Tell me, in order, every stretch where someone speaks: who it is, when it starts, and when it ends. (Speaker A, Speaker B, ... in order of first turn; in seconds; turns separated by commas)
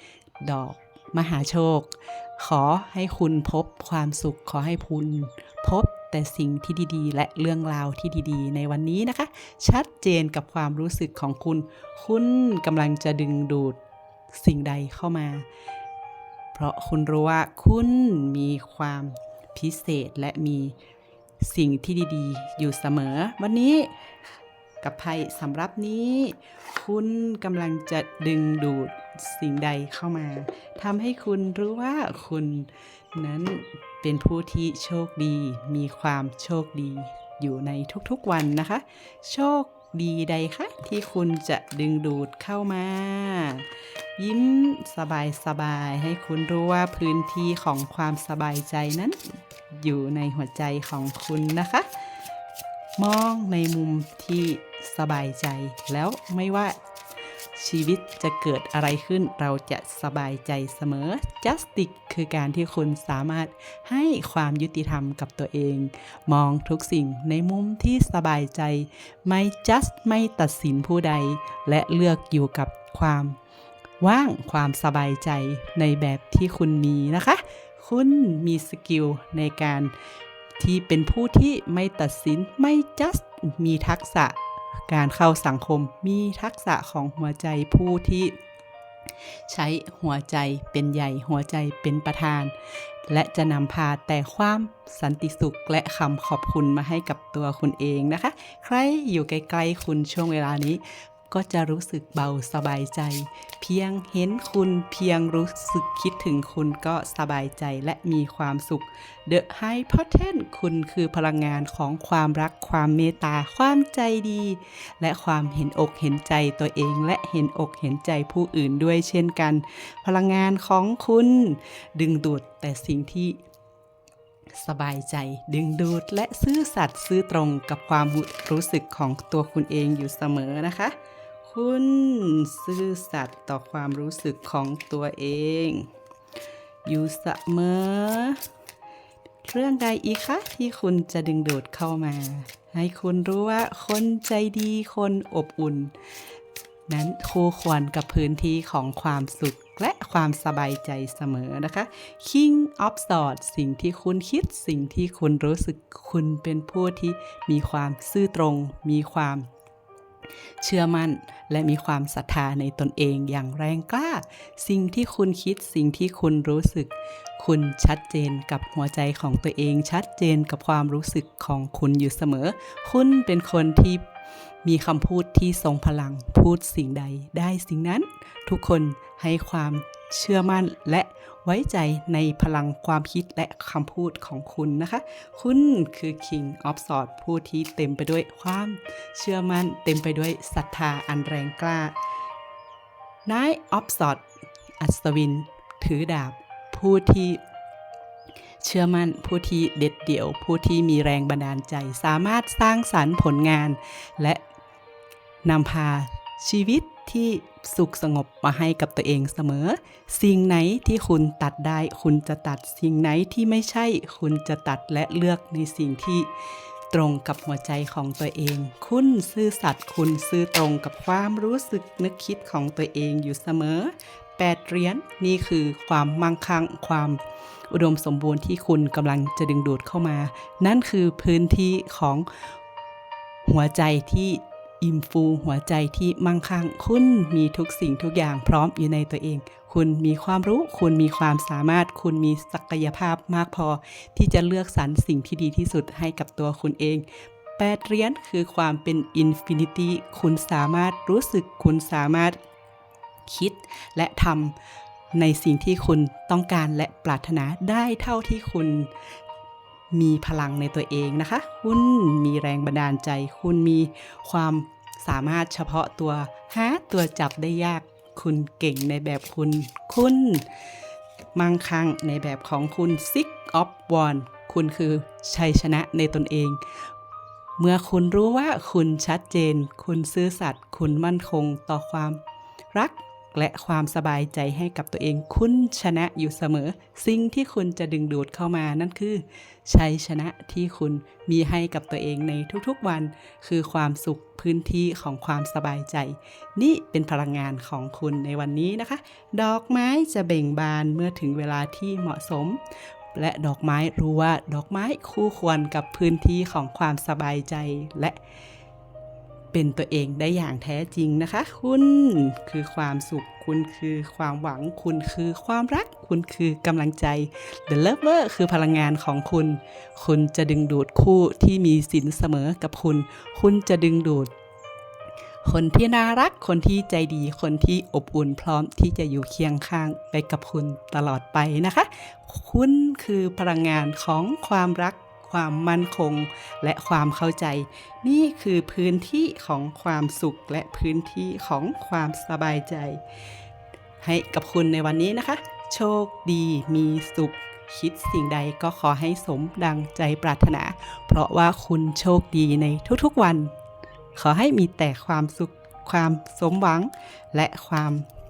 Speaker A: 0.4-13.8, Speaker A: 14.3-15.4, Speaker A: 16.5-20.7, Speaker A: 21.4-23.9, Speaker A: 24.8-49.2, Speaker A: 49.7-51.9, Speaker A: 53.0-56.8, Speaker A: 57.5-73.4, Speaker A: 74.0-79.9, Speaker A: 80.6-84.3, Speaker A: 84.9-88.4, Speaker A: 89.5-92.5, Speaker A: 93.1-123.4, Speaker A: 124.6-135.9, Speaker A: 136.8-138.4, Speaker A: 139.4-145.9, Speaker A: 146.9-159.5, Speaker A: 160.6-174.0, Speaker A: 174.6-191.9, Speaker A: 193.2-194.2, Speaker A: 194.8-197.4, Speaker A: 198.6-204.4, Speaker A: 205.4-216.3, Speaker A: 216.9-232.3, Speaker A: 233.4-247.1, Speaker A: 247.6-252.4, Speaker A: 253.3-254.6, Speaker A: 255.1-258.9, Speaker A: 259.9-270.5, Speaker A: 271.3-276.6, Speaker A: 277.6-282.2, Speaker A: 282.7-302.6, Speaker A: 303.1-308.2, Speaker A: 309.5-324.3, Speaker A: 325.4-343.0, Speaker A: 344.0-353.5, Speaker A: 354.1-358.1